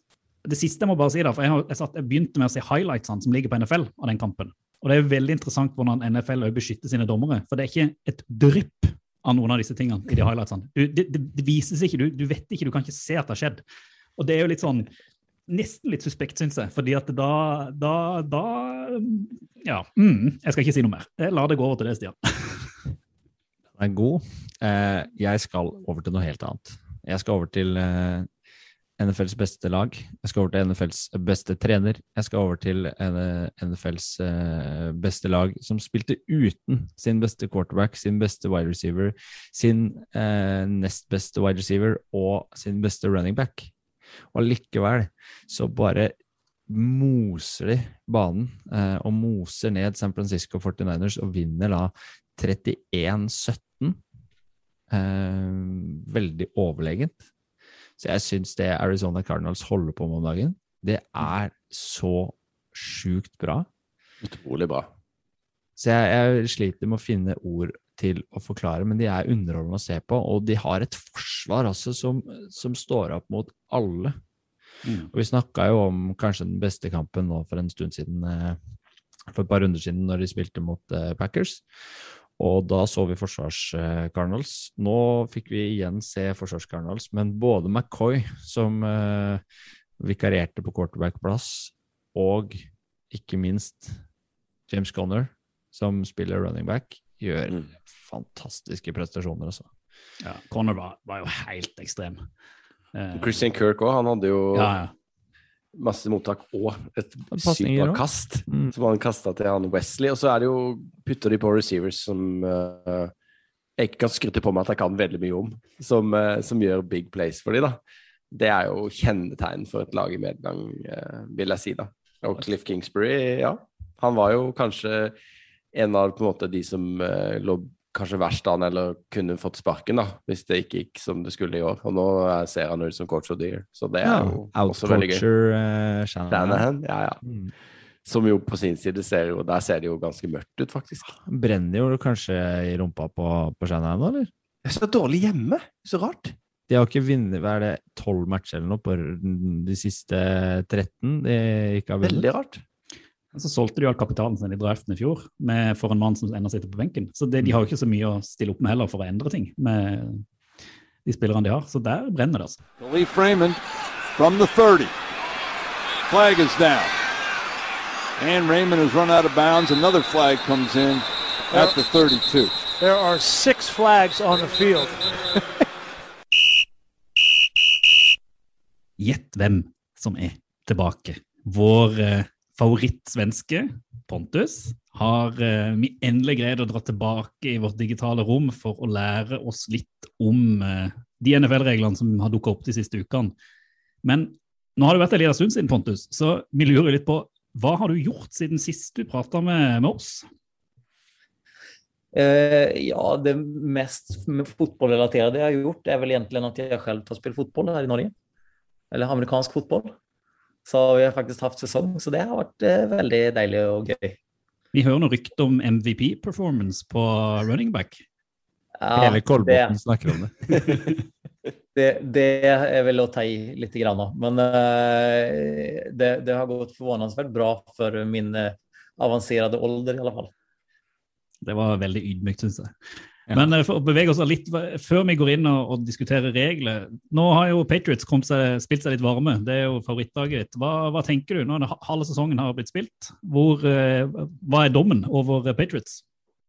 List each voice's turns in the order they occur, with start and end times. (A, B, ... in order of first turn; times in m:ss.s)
0:00.4-0:13.6 A
0:14.2-0:14.9 A
0:15.5-0:22.7 A
0:23.8-0:28.3 B
0:29.0-0:43.7 B
0:44.3-0:46.1 B
0:46.7-0:54.0 B
0:54.9-0:57.2 B
0:58.0-1:03.7 B
1:04.2-1:04.9 C
1:05.8-1:14.2 B
1:15.1-1:18.6 B
1:19.3-1:21.6 B
1:22.4-1:29.4 B
1:30.0-1:34.0 B
1:34.7-1:39.7 B
1:40.2-1:42.2 A
1:42.9-1:43.4 A
1:43.1-1:44.7 C
1:44.5-1:44.9 A
1:45.7-1:53.1 C
1:47.3-1:48.7 B
1:53.8-1:57.8 C
1:58.3-2:05.1 C
2:05.7-2:15.2 C
2:14.0-2:16.6 B
2:16.3-2:17.2 C
2:17.2-2:17.5 B
2:18.0-2:21.1 C
2:21.1-2:24.3 B
2:24.6-2:26.3 C
2:26.7-2:32.2 B
2:32.0-2:32.6 C
2:33.3-2:40.2 A
2:41.0-2:42.6 A
2:42.8-2:43.6 D
2:44.2-2:44.9 D
2:46.1-2:46.9 D
2:48.2-2:52.5 D
2:51.5-2:51.8 E
2:52.8-2:55.0 E
2:59.0-3:13.3 A
3:14.0-3:20.2 A
3:22.1-3:28.1 F
3:28.9-3:29.9 F
3:30.6-3:34.2 F
3:34.7-3:38.0 A
3:38.8-3:39.8 F
3:39.0-3:40.8 B
3:41.7-3:50.3 F
3:51.4-3:52.7 A
3:53.3-4:06.0 A